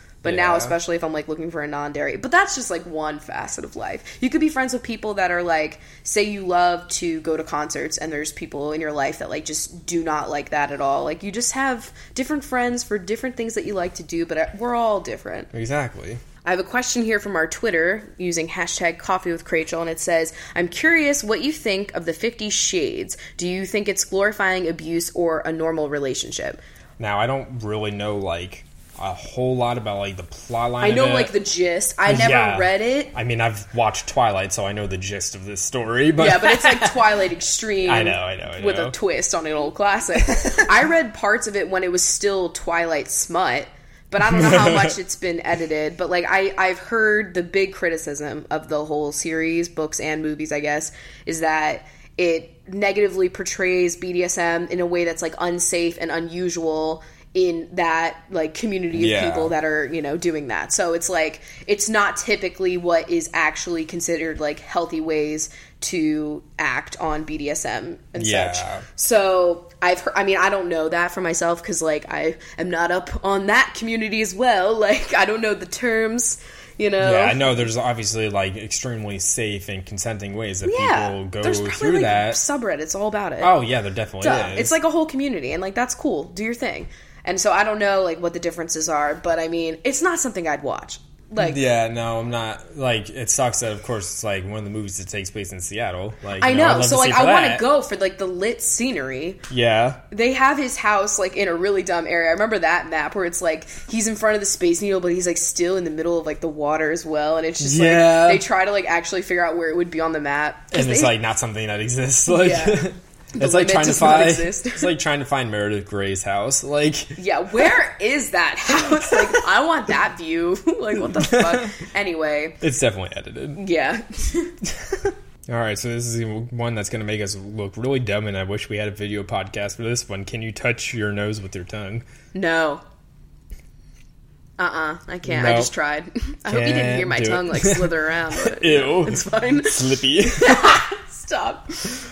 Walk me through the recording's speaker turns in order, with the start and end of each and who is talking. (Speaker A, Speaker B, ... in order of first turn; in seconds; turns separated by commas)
Speaker A: 0.2-15.5, Speaker B: 0.2-0.8, Speaker B: 15.5-16.2, Speaker A: 16.4-26.6, Speaker B: 27.0-31.4, Speaker A: 30.8-33.1, Speaker B: 32.0-37.1, Speaker A: 36.2-77.6, Speaker B: 37.9-39.0, Speaker B: 40.4-40.7, Speaker B: 44.3-45.0, Speaker B: 58.9-59.5, Speaker B: 68.2-68.8, Speaker B: 77.0-82.4, Speaker A: 80.6-83.5, Speaker B: 83.4-84.7, Speaker A: 84.2-91.6, Speaker B: 91.4-97.7, Speaker A: 96.4-99.4, Speaker B: 99.5-100.0, Speaker A: 100.1-111.2, Speaker B: 107.6-108.4, Speaker B: 110.7-117.7, Speaker A: 112.3-114.9, Speaker A: 117.2-122.6, Speaker B: 119.1-119.4, Speaker B: 121.0-121.7, Speaker B: 122.6-123.6, Speaker A: 123.6-124.5, Speaker B: 124.7-132.1, Speaker A: 132.3-132.8, Speaker A: 134.6-142.0, Speaker B: 135.2-135.7, Speaker B: 136.5-140.8